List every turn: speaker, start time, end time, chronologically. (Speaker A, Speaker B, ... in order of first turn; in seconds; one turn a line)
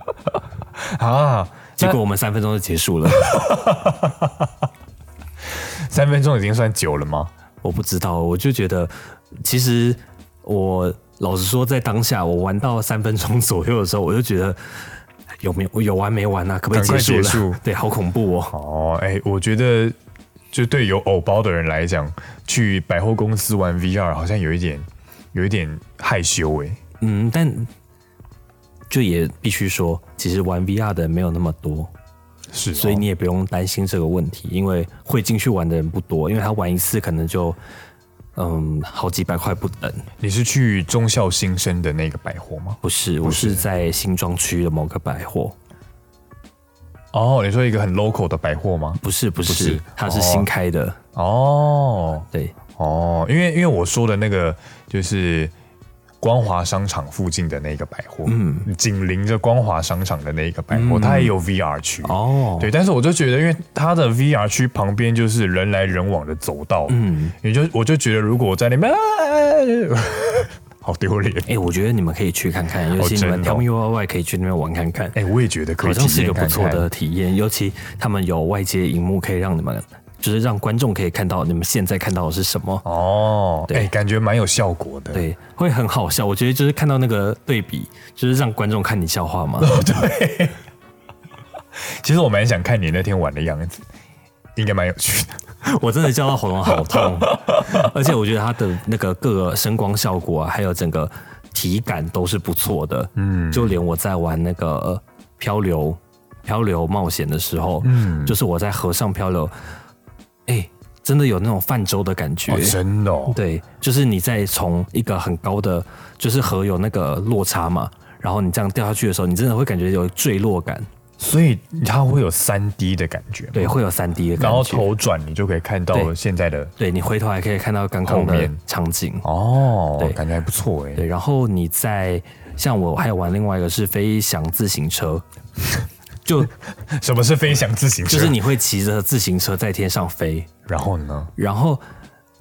Speaker A: 0.9-2.0
Speaker B: 1.8-3.3
Speaker A: 3.1-4.3
Speaker A: 5.6-7.3
Speaker B: 7.6-14.8
Speaker B: 15.4-18.5
Speaker A: 16.7-17.6
Speaker A: 18.5-19.9
Speaker A: 20.5-26.8
Speaker B: 27.0-27.7
Speaker B: 28.9-31.9
Speaker A: 32.5-33.0
Speaker B: 32.7-37.6
Speaker B: 38.4-40.0
Speaker A: 40.2-43.6
Speaker B: 42.8-45.5
Speaker A: 47.1-50.5
Speaker B: 49.0-51.0
Speaker A: 51.1-55.5
Speaker A: 56.2-71.5
Speaker B: 58.2-58.7
Speaker B: 60.7-61.3
Speaker B: 62.0-62.7
Speaker B: 66.9-67.3
Speaker B: 71.5-75.2
Speaker A: 72.9-73.7
Speaker A: 75.1-76.9
Speaker B: 75.8-82.8
Speaker A: 82.8-85.2
Speaker B: 85.1-89.7
Speaker A: 89.6-90.6
Speaker A: 92.0-93.8
Speaker A: 94.5-95.4
Speaker B: 95.6-109.5
Speaker A: 96.7-97.7
Speaker A: 103.2-103.8
Speaker A: 107.8-108.4
Speaker B: 110.5-120.8
Speaker A: 112.5-113.4
Speaker A: 121.2-123.8
Speaker B: 123.5-124.8
Speaker A: 124.4-126.7
Speaker B: 126.8-129.2
Speaker A: 128.0-128.6
Speaker A: 129.2-131.0
Speaker B: 130.0-130.2
Speaker B: 130.9-135.2
Speaker B: 136.2-136.5
Speaker A: 136.9-138.4
Speaker B: 138.0-140.5
Speaker A: 140.7-141.3
Speaker B: 141.4-141.8